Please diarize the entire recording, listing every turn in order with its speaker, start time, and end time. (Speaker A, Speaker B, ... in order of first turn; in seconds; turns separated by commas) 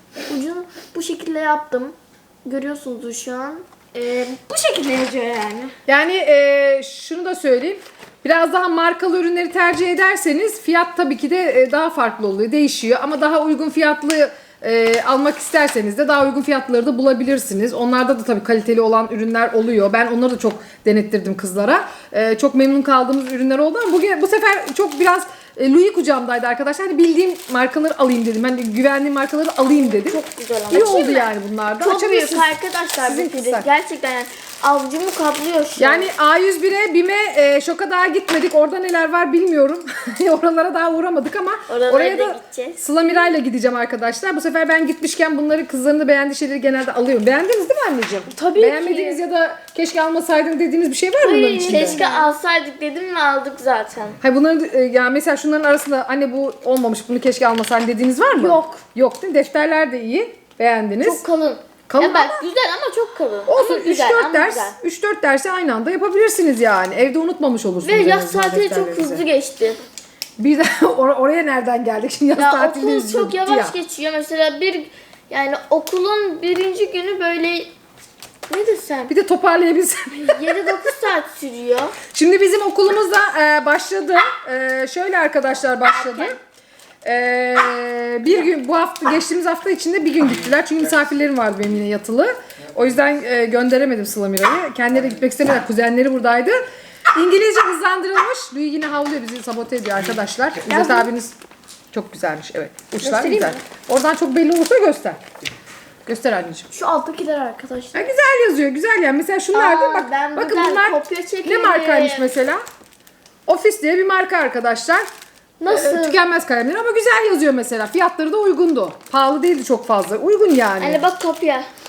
Speaker A: 0.3-3.7, Speaker B: 3.9-5.7, Speaker C: 5.9-32.5, Speaker A: 29.8-36.1, Speaker C: 33.0-33.7, Speaker C: 35.8-52.0, Speaker A: 41.7-43.3, Speaker B: 48.3-49.2, Speaker B: 51.2-52.3, Speaker A: 51.6-54.2, Speaker C: 54.2-61.2, Speaker A: 58.4-58.6, Speaker A: 61.0-64.8, Speaker C: 61.9-62.5, Speaker C: 63.5-69.2, Speaker A: 67.8-69.8, Speaker C: 70.4-73.8, Speaker A: 72.3-77.7, Speaker A: 78.5-79.1, Speaker C: 79.1-80.9, Speaker A: 80.2-82.0, Speaker C: 82.1-86.4, Speaker A: 85.8-86.4, Speaker C: 87.0-96.6, Speaker C: 97.1-101.3, Speaker B: 100.7-101.1, Speaker C: 101.9-105.2, Speaker B: 103.0-103.6, Speaker C: 106.1-106.7, Speaker A: 106.7-108.2, Speaker C: 107.9-112.6, Speaker A: 109.5-112.4, Speaker C: 113.5-115.1, Speaker A: 115.6-116.2, Speaker C: 115.7-121.0, Speaker A: 120.8-121.7